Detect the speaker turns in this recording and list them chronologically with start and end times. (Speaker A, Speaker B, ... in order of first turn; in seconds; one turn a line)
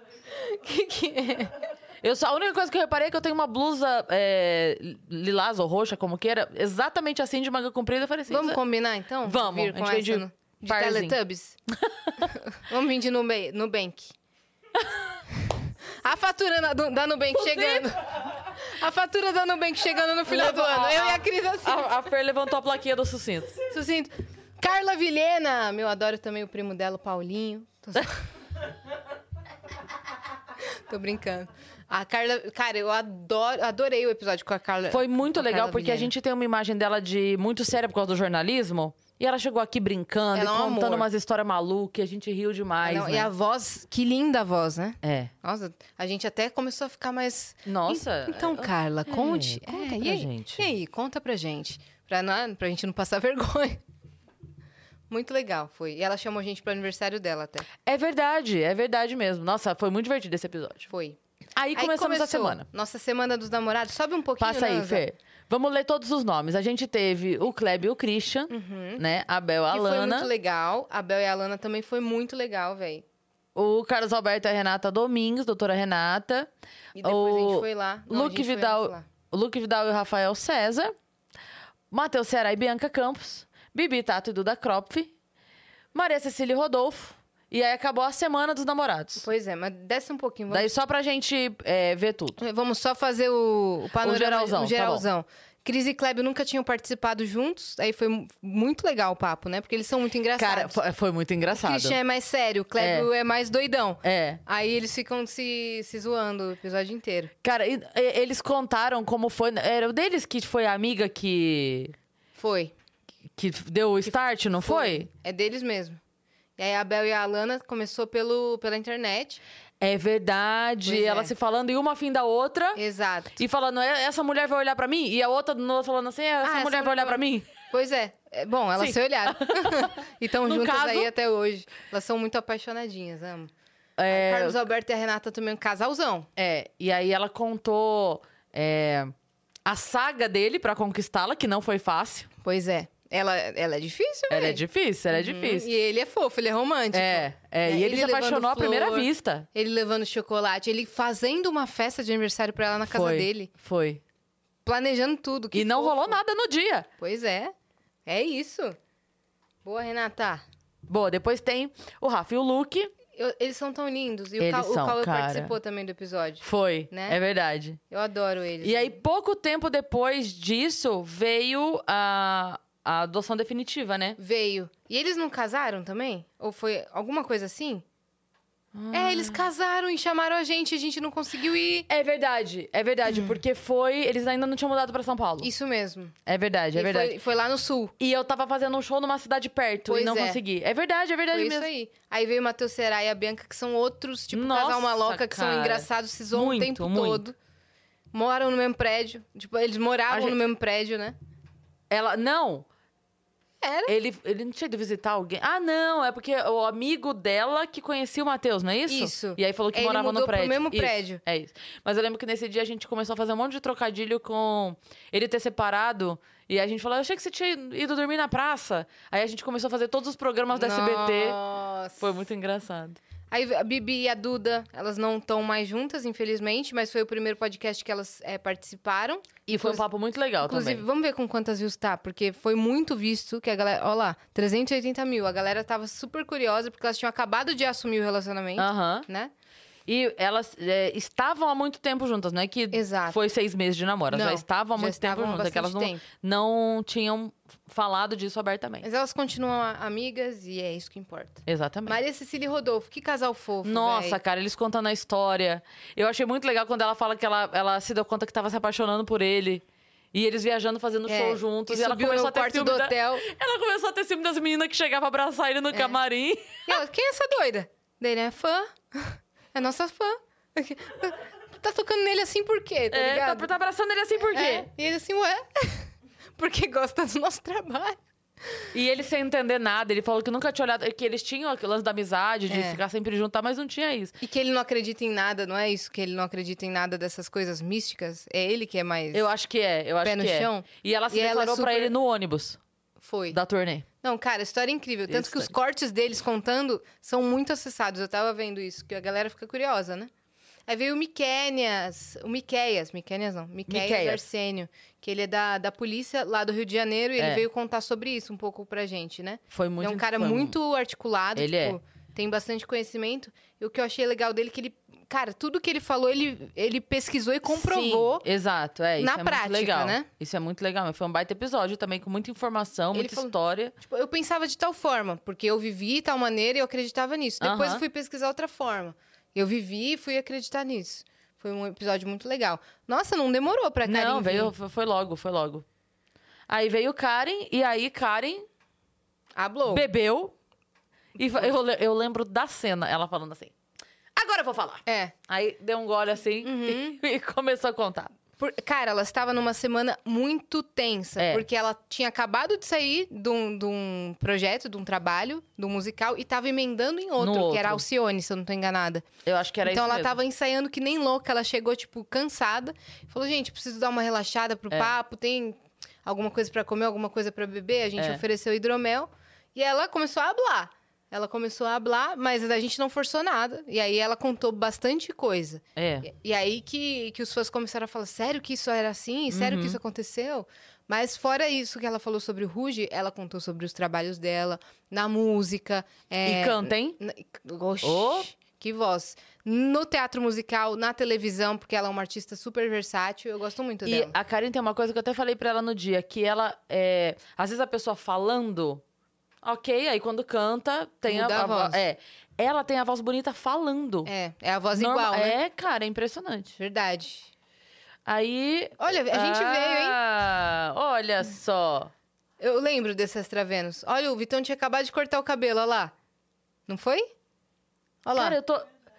Speaker A: 0.3-1.6
Speaker B: 2.0-8.6
Speaker A: 8.3-11.6
Speaker B: 9.2-11.2
Speaker B: 11.8-12.3
Speaker A: 12.2-14.1
Speaker A: 15.4-21.9
Speaker B: 17.3-17.9
Speaker B: 20.2-23.6
Speaker A: 23.7-28.2
Speaker A: 30.7-36.1
Speaker B: 34.9-43.3
Speaker A: 40.3-41.1
Speaker A: 42.8-53.8
Speaker B: 45.0-45.3
Speaker B: 47.6-50.6
Speaker A: 55.1-57.7
Speaker B: 57.8-60.9
Speaker A: 60.9-61.2
Speaker B: 61.5-62.6
Speaker A: 61.7-65.0
Speaker B: 64.4-70.3
Speaker A: 68.5-69.0
Speaker A: 69.7-73.0
Speaker B: 73.5-76.5
Speaker A: 76.9-79.0
Speaker B: 77.0-80.9
Speaker B: 81.9-85.1
Speaker B: 85.9-89.2
Speaker A: 89.2-90.7
Speaker B: 90.5-92.4
Speaker A: 92.4-100.8
Speaker B: 94.0-95.0
Speaker B: 100.3-102.0
Speaker A: 101.5-107.3
Speaker B: 102.8-103.1
Speaker B: 104.0-104.4
Speaker B: 107.4-111.9
Speaker A: 112.3-112.7
Speaker B: 113.3-115.1
Speaker A: 114.6-116.0
Speaker A: 116.6-119.4
Speaker B: 119.8-122.8
Speaker A: 120.8-121.3
Speaker A: 122.7-123.4
Speaker B: 123.4-127.5
Speaker A: 126.4-133.5
Speaker B: 128.8-131.1
Speaker B: 134.0-134.6
Speaker A: 134.1-136.3
Speaker B: 136.4-139.1
Speaker B: 139.6-142.3
Speaker A: 142.4-153.5
Speaker B: 144.3-145.7
Speaker B: 146.9-149.4
Speaker B: 152.9-154.0
Speaker A: 154.6-156.2
Speaker B: 155.5-156.9
Speaker A: 157.0-157.5
Speaker A: 158.1-158.8
Speaker A: 159.6-160.4
Speaker B: 160.9-162.9
Speaker A: 163.1-167.2
Speaker B: 164.4-165.5
Speaker B: 166.4-167.8
Speaker A: 167.9-169.0
Speaker B: 168.6-174.2
Speaker A: 174.2-177.8
Speaker B: 178.7-179.4
Speaker A: 178.9-181.9
Speaker B: 181.9-185.5
Speaker A: 185.4-186.1
Speaker B: 186.2-187.2
Speaker A: 186.7-187.9
Speaker B: 188.0-191.7
Speaker A: 189.9-190.4
Speaker A: 191.3-197.4
Speaker B: 194.3-197.2
Speaker A: 198.1-201.2
Speaker B: 200.1-200.4
Speaker B: 201.9-202.7
Speaker A: 203.6-203.9
Speaker B: 203.9-221.4
Speaker A: 208.9-211.2
Speaker A: 220.5-222.1
Speaker B: 222.0-223.0
Speaker A: 223.3-229.8
Speaker B: 229.5-230.8
Speaker A: 230.4-239.3
Speaker B: 238.6-239.1
Speaker B: 239.9-248.8
Speaker A: 242.7-243.2
Speaker A: 244.1-246.0
Speaker A: 248.8-254.2
Speaker B: 251.4-252.0
Speaker B: 253.6-266.8
Speaker A: 261.1-263.3
Speaker A: 266.6-273.5
Speaker B: 272.9-274.7
Speaker A: 274.2-278.7
Speaker B: 278.7-284.2
Speaker A: 282.5-282.8
Speaker A: 284.2-289.3
Speaker B: 289.1-292.6
Speaker A: 290.0-291.9
Speaker A: 293.0-293.4
Speaker B: 293.3-293.9
Speaker A: 294.0-300.1
Speaker B: 295.1-295.5
Speaker A: 300.7-318.2
Speaker B: 303.7-304.2
Speaker B: 307.2-307.4
Speaker B: 309.5-310.5
Speaker B: 311.4-311.8
Speaker B: 317.4-323.7
Speaker A: 319.0-320.1
Speaker A: 322.9-334.5
Speaker B: 327.4-327.8
Speaker B: 333.8-335.6
Speaker B: 336.5-338.5
Speaker A: 339.4-339.9
Speaker B: 339.7-340.4
Speaker B: 341.2-343.5
Speaker B: 344.1-348.1
Speaker A: 344.9-345.1
Speaker A: 346.4-347.0
Speaker A: 348.4-359.1
Speaker B: 351.2-351.4
Speaker B: 357.2-357.8
Speaker B: 359.2-360.2
Speaker A: 359.6-394.1
Speaker B: 368.0-368.2
Speaker B: 375.8-376.1
Speaker B: 379.3-379.8
Speaker B: 386.2-387.0
Speaker B: 387.8-388.3
Speaker B: 393.9-398.8
Speaker B: 399.4-404.1
Speaker A: 401.1-401.8
Speaker A: 404.1-405.4
Speaker B: 404.7-406.6
Speaker A: 406.6-407.3
Speaker B: 408.1-411.9
Speaker A: 408.8-410.0
Speaker A: 412.4-415.9
Speaker A: 416.7-417.1
Speaker A: 418.0-418.4
Speaker B: 418.1-418.7